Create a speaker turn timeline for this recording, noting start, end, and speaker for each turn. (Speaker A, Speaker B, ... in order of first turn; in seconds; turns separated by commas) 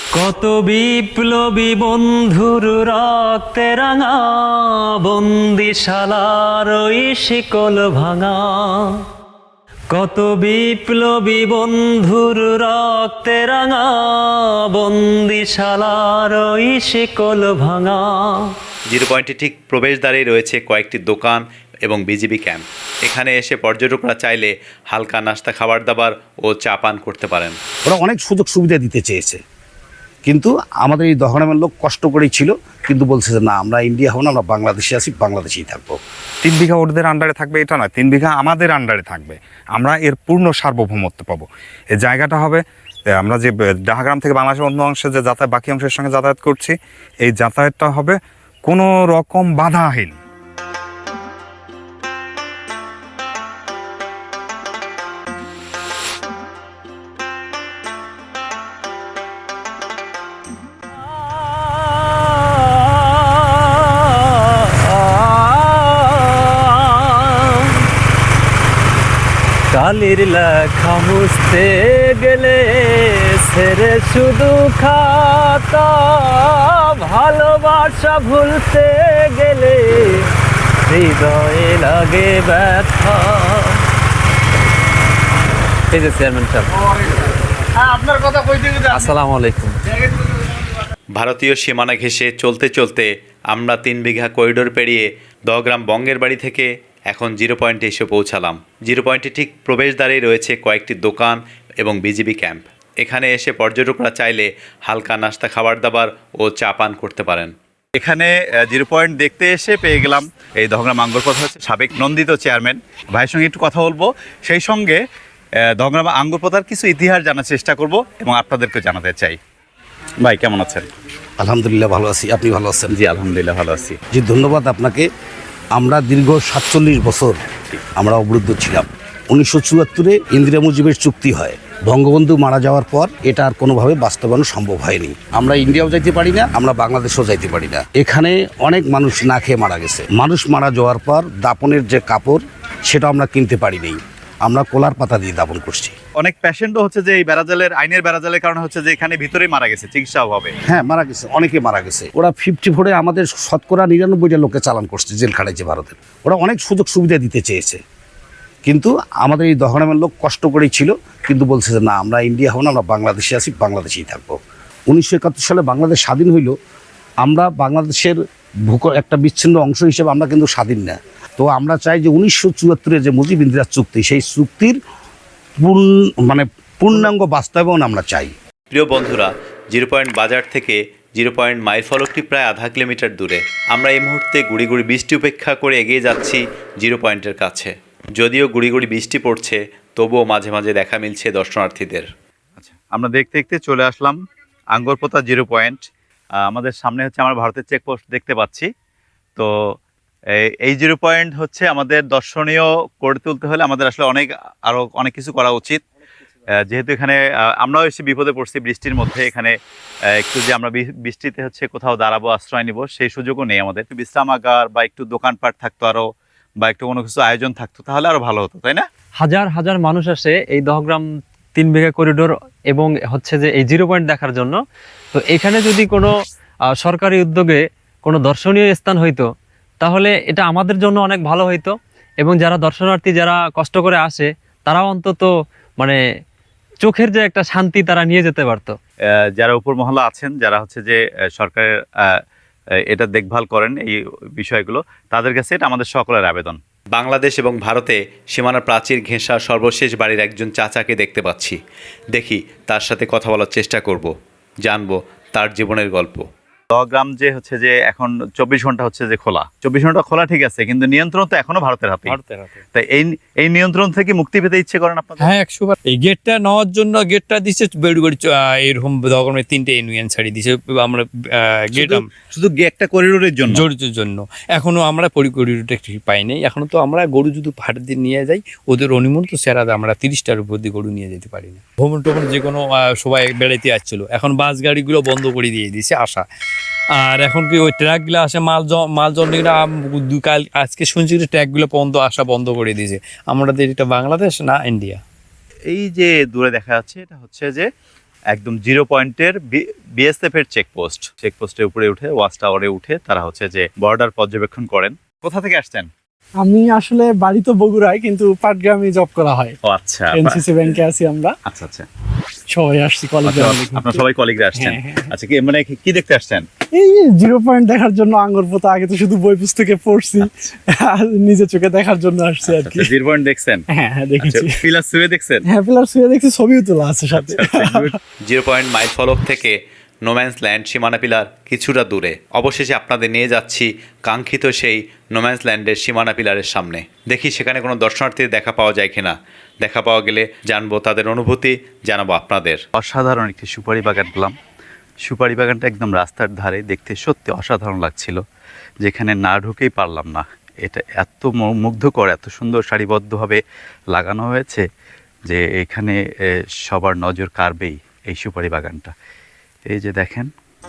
Speaker A: 0.1-8.9, Speaker A: 9.9-18.5, Speaker B: 18.9-27.6, Speaker C: 27.9-29.4, Speaker C: 30.2-36.0, Speaker D: 36.4-41.5, Speaker D: 42.0-42.6, Speaker D: 43.2-48.1, Speaker D: 48.7-50.1, Speaker A: 61.2-67.9, Speaker A: 69.7-80.3, Speaker A: 80.8-83.8, Speaker A: 85.9-86.7, Speaker A: 88.0-89.8, Speaker B: 91.1-115.0, Speaker B: 115.6-119.4, Speaker B: 120.2-120.8, Speaker C: 121.4-122.9, Speaker B: 122.9-124.0, Speaker C: 124.1-125.0, Speaker C: 125.7-145.9, Speaker B: 146.2-150.5, Speaker C: 150.7-157.8, Speaker C: 158.7-164.4, Speaker C: 164.9-166.5, Speaker C: 167.2-168.2, Speaker C: 168.7-174.7, Speaker C: 175.6-178.3, Speaker B: 178.7-192.1, Speaker B: 192.6-194.2, Speaker B: 194.7-195.8, Speaker B: 196.4-198.7, Speaker B: 200.3-205.8, Speaker B: 206.6-209.5, Speaker B: 210.2-216.1, Speaker B: 216.6-218.8, Speaker A: 219.2-221.0, Speaker A: 221.6-224.6, Speaker A: 225.2-226.1, Speaker A: 226.8-229.2, Speaker A: 229.8-235.3, Speaker A: 236.8-238.7, Speaker B: 239.4-242.1, Speaker B: 242.9-251.6, Speaker B: 252.1-254.1, Speaker B: 254.6-262.2, Speaker E: 262.1-262.6, Speaker B: 262.7-265.3, Speaker E: 265.2-272.1, Speaker B: 271.7-273.6, Speaker E: 273.5-286.2, Speaker E: 287.0-295.0, Speaker B: 295.7-297.7, Speaker B: 298.3-305.9, Speaker F: 306.4-309.5, Speaker B: 309.6-310.4, Speaker F: 310.1-311.3, Speaker B: 311.4-311.9, Speaker F: 312.5-314.0, Speaker B: 313.2-316.4, Speaker F: 314.6-315.0, Speaker F: 316.7-322.9, Speaker B: 320.2-320.5, Speaker B: 322.4-323.6, Speaker F: 323.7-324.6, Speaker B: 324.2-325.4, Speaker F: 325.5-327.9, Speaker B: 327.1-344.4, Speaker B: 345.0-348.2, Speaker B: 348.8-353.4, Speaker B: 353.9-354.6, Speaker B: 355.3-358.9, Speaker B: 359.7-360.3